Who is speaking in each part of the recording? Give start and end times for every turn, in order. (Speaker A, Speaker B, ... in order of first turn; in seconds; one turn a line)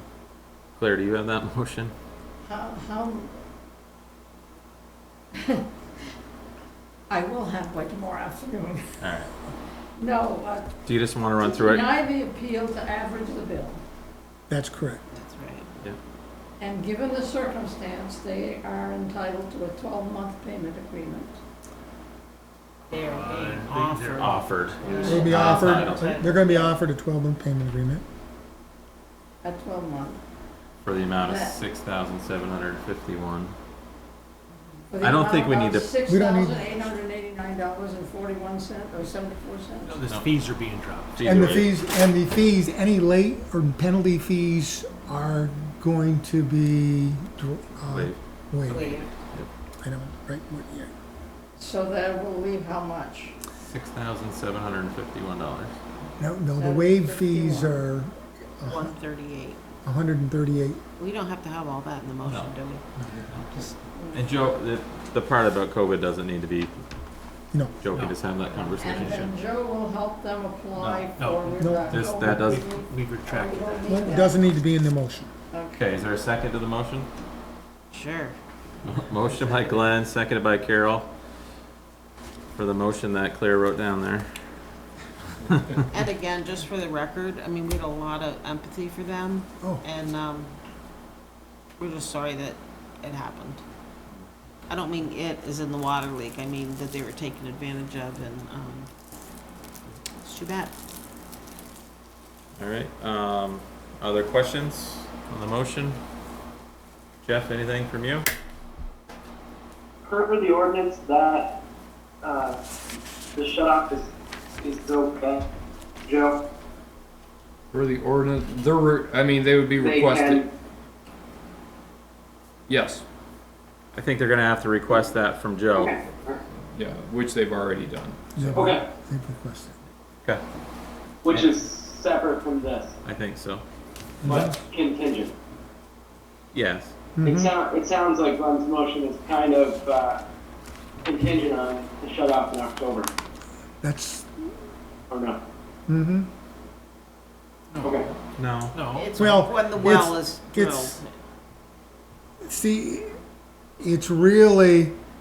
Speaker A: 0.8-1.9
Speaker B: 2.4-3.4
Speaker B: 7.1-9.1
Speaker A: 9.0-9.3
Speaker B: 10.0-10.8
Speaker A: 10.8-11.9
Speaker B: 11.4-13.8
Speaker C: 14.5-15.0
Speaker D: 15.1-15.7
Speaker B: 16.6-21.4
Speaker D: 22.9-26.8
Speaker E: 23.1-24.2
Speaker A: 24.0-26.1
Speaker C: 25.0-28.0
Speaker B: 29.4-30.2
Speaker A: 30.8-33.5
Speaker B: 31.2-31.6
Speaker B: 34.9-40.0
Speaker A: 35.0-35.9
Speaker C: 36.1-36.7
Speaker E: 39.9-41.2
Speaker A: 41.1-41.7
Speaker C: 41.2-49.0
Speaker A: 47.9-48.2
Speaker D: 48.6-49.1
Speaker C: 49.8-50.9
Speaker B: 51.6-53.3
Speaker A: 53.7-55.7
Speaker C: 56.2-58.9
Speaker B: 56.6-57.8
Speaker D: 58.7-59.6
Speaker C: 59.8-60.8
Speaker D: 61.0-62.8
Speaker A: 62.2-62.5
Speaker A: 63.3-66.8
Speaker B: 63.9-64.3
Speaker C: 67.5-67.8
Speaker A: 67.8-69.3
Speaker E: 67.9-68.2
Speaker B: 68.8-74.4
Speaker E: 70.8-73.9
Speaker C: 71.6-71.9
Speaker A: 71.9-72.6
Speaker C: 73.9-75.3
Speaker B: 75.5-75.8
Speaker A: 75.7-77.1
Speaker D: 77.9-78.4
Speaker A: 78.8-81.1
Speaker D: 79.1-79.8
Speaker A: 82.5-84.3
Speaker D: 85.9-90.5
Speaker D: 91.8-93.6
Speaker D: 94.7-98.9
Speaker D: 100.2-100.7
Speaker A: 102.6-106.0
Speaker A: 107.2-108.2
Speaker F: 110.0-111.5
Speaker F: 112.2-112.6
Speaker F: 113.3-114.1
Speaker F: 114.6-115.4
Speaker F: 116.1-116.4
Speaker G: 117.7-120.4
Speaker F: 119.8-120.5
Speaker G: 122.7-123.0
Speaker A: 123.9-125.9
Speaker F: 125.8-126.4
Speaker G: 126.7-128.5
Speaker C: 128.3-129.8
Speaker F: 128.5-128.8
Speaker F: 131.2-132.9
Speaker A: 133.0-133.6
Speaker C: 134.2-134.5
Speaker F: 134.2-135.3
Speaker A: 136.5-136.9
Speaker C: 137.2-137.5
Speaker F: 137.2-140.2
Speaker F: 141.0-143.1
Speaker C: 143.8-144.3
Speaker F: 145.1-145.4
Speaker C: 145.9-146.3
Speaker A: 148.4-148.7
Speaker E: 148.7-149.1
Speaker D: 148.9-151.1
Speaker C: 149.1-151.0
Speaker C: 152.4-153.1
Speaker C: 153.8-154.9